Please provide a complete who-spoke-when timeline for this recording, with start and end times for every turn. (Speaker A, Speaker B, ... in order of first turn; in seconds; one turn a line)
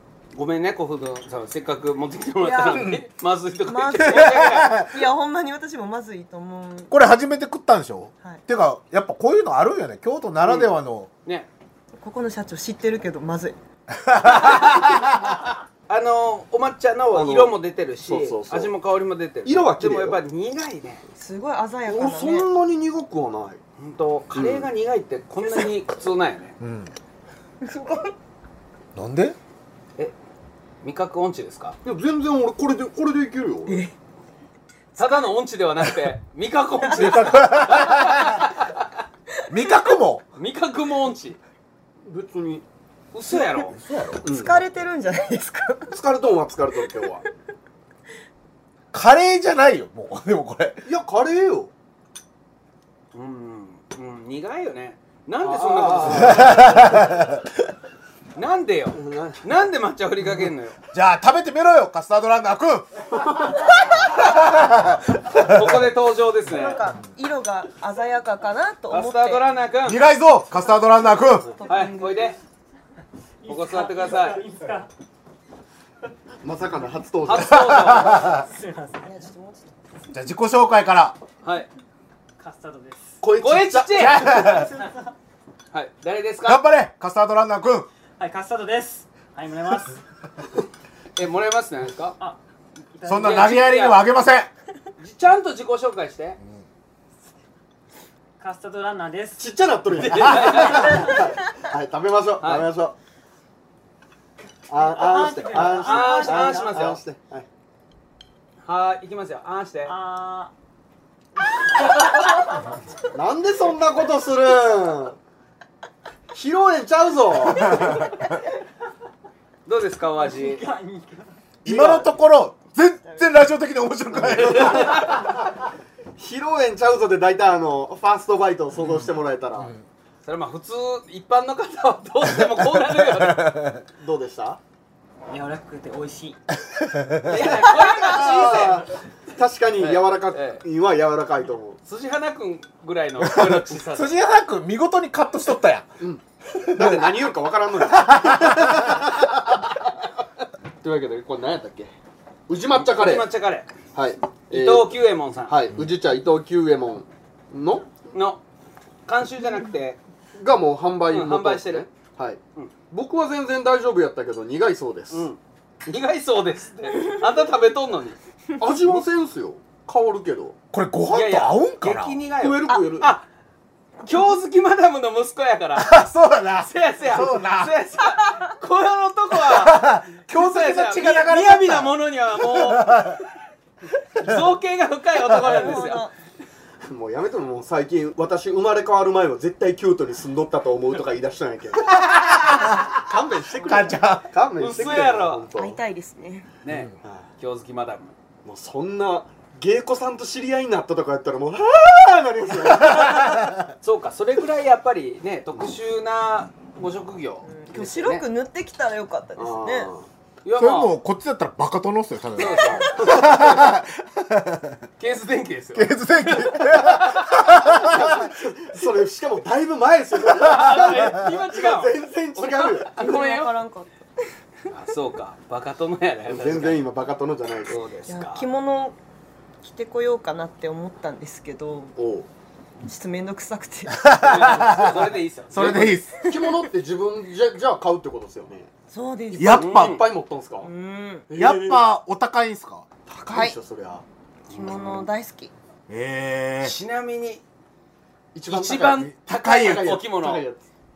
Speaker A: 0.3-4.8
Speaker B: 2.4-3.0
Speaker B: 3.7-6.9
Speaker C: 4.0-5.0
Speaker C: 6.9-11.1
Speaker A: 10.4-10.7
Speaker B: 12.0-13.6
Speaker C: 13.9-15.3
Speaker A: 14.2-21.0
Speaker D: 17.1-18.7
Speaker D: 19.4-20.2
Speaker B: 21.2-22.5
Speaker D: 21.9-23.6
Speaker A: 23.8-26.6
Speaker D: 24.3-24.7
Speaker C: 26.6-26.9
Speaker B: 27.6-28.1
Speaker C: 28.9-29.4
Speaker A: 30.8-31.8
Speaker D: 31.9-33.9
Speaker B: 33.7-33.9
Speaker B: 35.0-35.3
Speaker A: 35.0-38.9
Speaker B: 36.8-37.2
Speaker C: 36.9-38.5
Speaker C: 39.5-40.2
Speaker A: 40.4-41.4
Speaker D: 42.0-42.6
Speaker A: 43.1-43.8
Speaker C: 43.8-44.2
Speaker D: 44.2-44.6
Speaker B: 44.2-46.0
Speaker D: 45.9-47.2
Speaker C: 48.9-50.9
Speaker D: 50.9-51.7
Speaker A: 53.1-56.7
Speaker D: 55.4-57.2
Speaker C: 56.1-57.4
Speaker A: 58.4-60.8
Speaker D: 59.0-59.4
Speaker C: 60.9-65.9
Speaker A: 65.3-66.8
Speaker B: 66.5-69.4
Speaker A: 68.9-70.0
Speaker C: 69.8-71.5
Speaker B: 71.6-72.3
Speaker A: 71.7-72.4
Speaker E: 73.4-74.9
Speaker A: 73.5-74.4
Speaker D: 76.4-77.9
Speaker A: 77.2-78.3
Speaker C: 77.3-78.5
Speaker E: 78.2-79.2
Speaker B: 79.0-79.7
Speaker C: 80.1-81.2
Speaker A: 81.4-81.7
Speaker E: 82.4-83.2
Speaker D: 83.2-84.5
Speaker A: 83.3-84.4
Speaker C: 83.9-84.7
Speaker B: 84.5-85.0
Speaker A: 85.7-86.6
Speaker C: 86.4-87.9
Speaker E: 88.2-90.0
Speaker A: 91.2-92.2
Speaker E: 93.0-93.2
Speaker C: 93.0-94.5
Speaker A: 93.1-94.1
Speaker A: 95.0-96.4
Speaker E: 98.4-99.4
Speaker D: 99.4-103.0
Speaker A: 99.9-101.2
Speaker A: 102.4-102.7
Speaker D: 104.7-107.5
Speaker E: 104.8-106.7
Speaker A: 105.6-107.0
Speaker A: 108.6-109.9
Speaker E: 109.9-110.5
Speaker D: 113.1-115.2
Speaker D: 116.3-118.1
Speaker C: 117.5-118.2
Speaker A: 119.7-120.6
Speaker E: 120.2-121.3
Speaker C: 121.7-125.2
Speaker A: 121.7-122.0
Speaker D: 121.7-122.0
Speaker B: 123.0-123.4
Speaker D: 124.2-125.1
Speaker A: 124.3-125.3
Speaker D: 126.2-129.7
Speaker C: 128.9-129.8
Speaker A: 130.2-133.7
Speaker C: 133.1-133.8
Speaker D: 134.0-134.6
Speaker E: 135.3-136.4
Speaker C: 136.7-137.5
Speaker D: 137.2-141.8
Speaker A: 137.2-138.9
Speaker A: 139.7-140.6
Speaker A: 141.8-144.1
Speaker C: 143.2-145.9
Speaker C: 146.5-149.2
Speaker D: 146.8-149.7
Speaker D: 150.8-151.9
Speaker D: 152.5-153.3
Speaker A: 152.7-153.7
Speaker D: 153.9-158.0
Speaker A: 154.5-155.6
Speaker A: 158.1-158.4
Speaker A: 159.1-160.0
Speaker D: 160.4-165.3
Speaker A: 161.1-161.9
Speaker A: 165.1-168.2
Speaker D: 168.6-170.6
Speaker C: 170.7-172.2
Speaker A: 171.1-173.2
Speaker D: 172.4-173.1
Speaker A: 174.1-176.0
Speaker C: 175.7-177.8
Speaker A: 176.6-183.2
Speaker B: 178.2-178.5
Speaker C: 179.3-183.2
Speaker A: 184.2-186.1
Speaker C: 185.3-185.6
Speaker B: 185.4-186.1
Speaker D: 186.8-191.9
Speaker C: 191.9-193.0
Speaker D: 193.0-195.8
Speaker C: 193.6-194.3
Speaker A: 194.6-195.5
Speaker B: 195.6-196.5
Speaker A: 196.6-198.2
Speaker D: 197.0-197.3
Speaker D: 198.4-203.5
Speaker C: 202.9-203.6
Speaker A: 203.8-208.2
Speaker B: 207.4-209.9
Speaker D: 209.4-210.1
Speaker A: 210.4-210.9
Speaker C: 210.6-214.8
Speaker A: 212.3-213.7
Speaker B: 212.4-213.1
Speaker D: 213.0-213.5
Speaker A: 215.0-217.4
Speaker C: 215.8-218.3
Speaker D: 217.6-223.0
Speaker A: 220.3-223.5
Speaker B: 223.0-224.0
Speaker A: 224.7-226.8
Speaker D: 226.3-227.8
Speaker A: 227.7-228.4
Speaker B: 228.1-229.0
Speaker B: 229.6-231.9
Speaker D: 232.0-232.3
Speaker B: 232.9-234.8
Speaker C: 233.9-236.2
Speaker A: 234.2-236.0
Speaker D: 235.8-238.7
Speaker B: 236.3-236.6
Speaker B: 238.9-239.7
Speaker D: 239.3-240.7
Speaker C: 239.4-240.0
Speaker A: 239.6-240.1
Speaker B: 240.6-241.3
Speaker D: 241.3-241.9
Speaker C: 241.3-242.9
Speaker D: 243.1-244.0
Speaker B: 243.3-243.6
Speaker B: 244.5-245.5
Speaker A: 244.5-245.1
Speaker C: 245.9-246.8
Speaker A: 246.6-247.4
Speaker D: 248.3-250.6
Speaker A: 248.5-250.5
Speaker C: 249.4-249.9